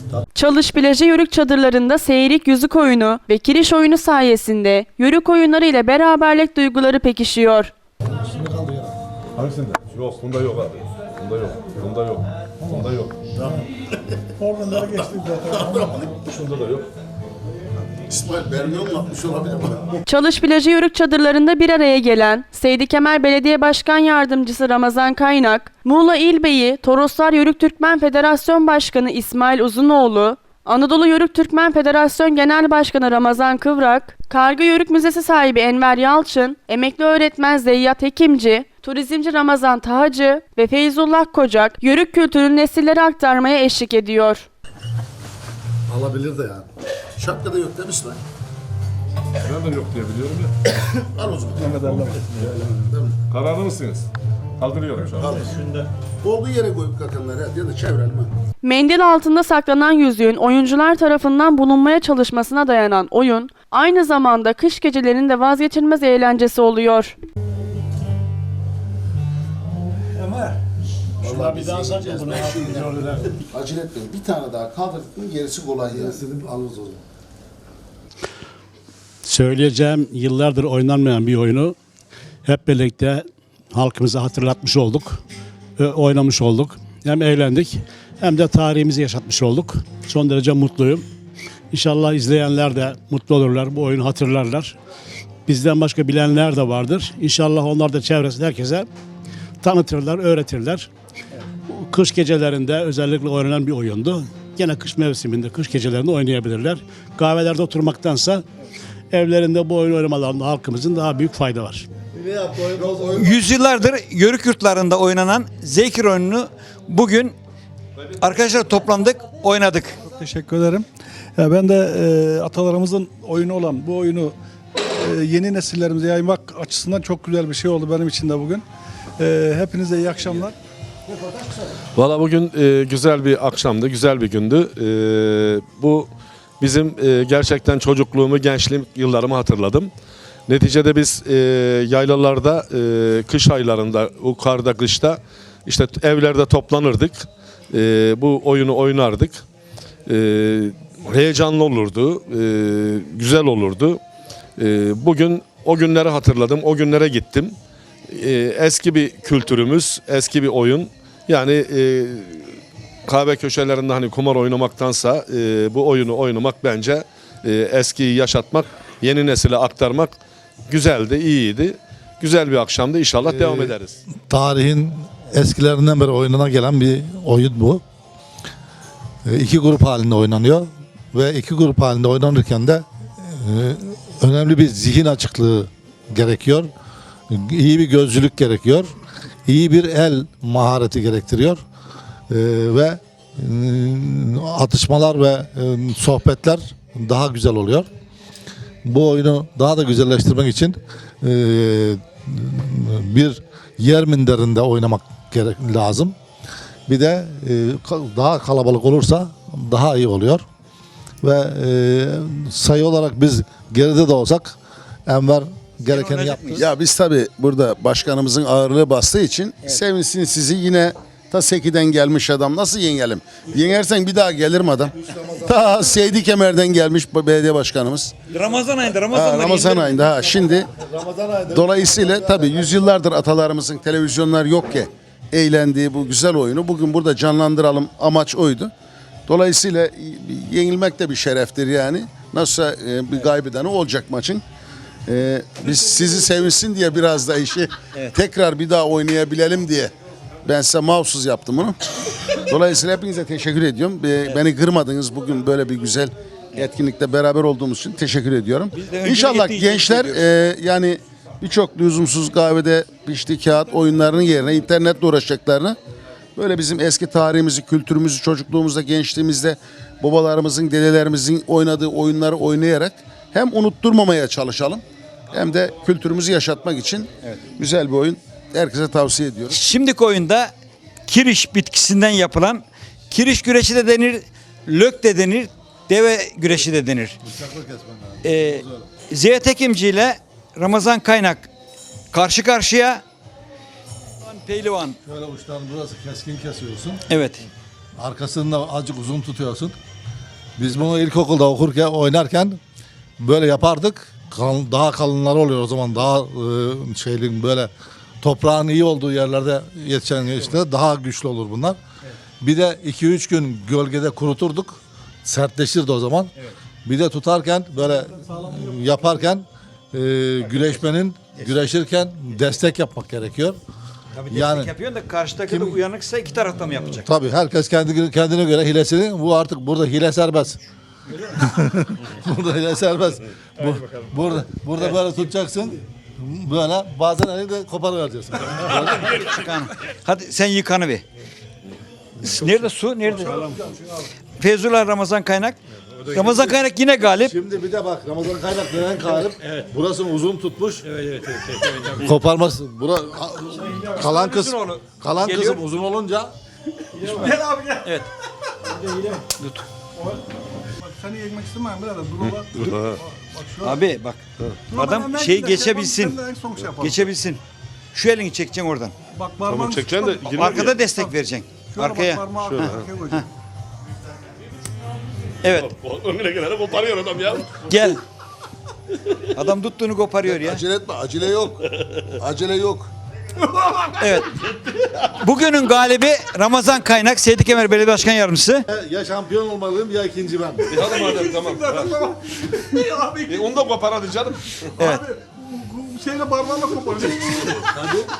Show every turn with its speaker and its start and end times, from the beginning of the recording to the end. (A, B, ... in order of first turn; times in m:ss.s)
0:00.3-0:07.7 A
0:08.1-0:08.9 B
0:09.4-0:13.2 C
0:14.4-0:16.2 D
0:16.3-0:16.8 C
0:18.1-0:20.0 E
0:20.0-0:44.5 A
0:45.9-0:46.6 E
0:47.2-0:48.2 E
0:49.5-0:50.5 C
0:51.1-0:52.0 E
0:51.6-0:52.6 D
0:52.6-0:53.1 E
0:53.3-0:54.0 C
0:54.6-0:55.2 C
0:55.2-0:55.6 E
0:56.2-0:58.3 E
0:58.6-1:07.2 A
1:11.2-1:16.3 E
1:12.4-1:12.6 B
1:16.2-1:17.0 B
1:19.2-1:21.8 F
1:22.4-1:25.2 F
1:25.8-1:31.0 F
1:31.7-1:34.8 F
1:35.5-1:38.9 F
1:39.6-1:40.9 F
1:41.7-1:48.4 F
1:49.1-1:51.9 F
1:52.1-1:53.2 B
1:53.2-1:57.3 G
1:58.2-2:00.0 G
2:00.0-2:00.8 D
2:01.4-2:04.3 D
2:04.9-2:08.6 D
2:09.2-2:10.5 D
2:11.1-2:11.6 E
2:12.0-2:16.1 C
2:16.6-2:19.9 C
2:20.5-2:29.4 C
2:30.1-2:34.0 C
2:34.6-2:37.6 C
2:38.1-2:50.1 C
2:50.7-2:54.0 C
2:53.2-2:53.8 B
2:54.3-2:57.8 B
2:59.2-3:06.7 B
3:07.3-3:08.9 B
3:09.5-3:11.6 B
3:12.3-3:17.9 B
3:18.8-3:26.1 B
3:26.9-3:30.4 B
3:31.2-3:34.6 B
3:35.1-3:36.6 B
3:35.9-3:36.6 G
3:36.5-3:48.2 E
3:45.0-3:45.8 B
3:48.3-3:50.0 G
3:49.1-3:50.7 E
3:50.0-3:52.8 B
3:51.5-3:58.7 E
3:59.3-4:04.4 E
4:05.1-4:09.9 E
4:10.4-4:11.8 E
4:12.5-4:25.8 E
4:18.7-4:20.2 G
4:26.4-4:39.6 E
4:39.5-4:40.5 G
4:41.1-4:47.2 G
4:47.2-4:48.9 B
4:48.2-4:51.5 G
4:52.1-4:53.0 G
4:54.2-4:55.0 G
4:55.0-4:57.0 B
4:57.1-4:57.4 G
4:58.0-4:59.7 B
5:00.6-5:02.6 B
5:03.2-5:07.7 B
5:08.2-5:11.8 B
5:12.4-5:16.3 B
5:16.8-5:23.6 B
5:24.2-5:27.1 G
5:24.3-5:24.7 B
5:25.5-5:25.8 B
5:26.8-5:30.6 B
5:31.3-5:39.2 B
5:39.0-5:41.0 G
5:42.2-5:43.6 G
5:43.0-5:44.0 D
5:44.4-5:45.6 G
5:46.1-5:47.3 G
5:46.3-5:46.5 B
5:47.2-5:50.9 B
5:50.9-5:52.0 G
5:52.0-5:56.3 B
5:54.1-5:55.6 G
5:56.9-5:57.8 D
5:58.7-5:59.3 D
5:59.4-5:59.6 G
6:00.8-6:03.8 D
6:02.2-6:03.0 C
6:03.6-6:04.2 G
6:04.7-6:07.1 D
6:04.7-6:06.2 G
6:06.8-6:07.4 G
6:07.9-6:08.9 G
6:09.1-6:13.2 D
6:09.4-6:10.8 C
6:10.3-6:13.2 G
6:12.3-6:12.9 C
6:15.4-6:15.7 G
6:15.5-6:17.7 C
6:17.7-6:18.0 G
6:19.3-6:20.6 G
6:20.2-6:22.9 E
6:23.4-6:24.0 D
6:25.0-6:28.6 G
6:28.7-6:30.8 B
6:30.7-6:32.0 C
6:30.8-6:33.6 D
6:33.3-6:34.8 C
6:34.8-6:37.7 D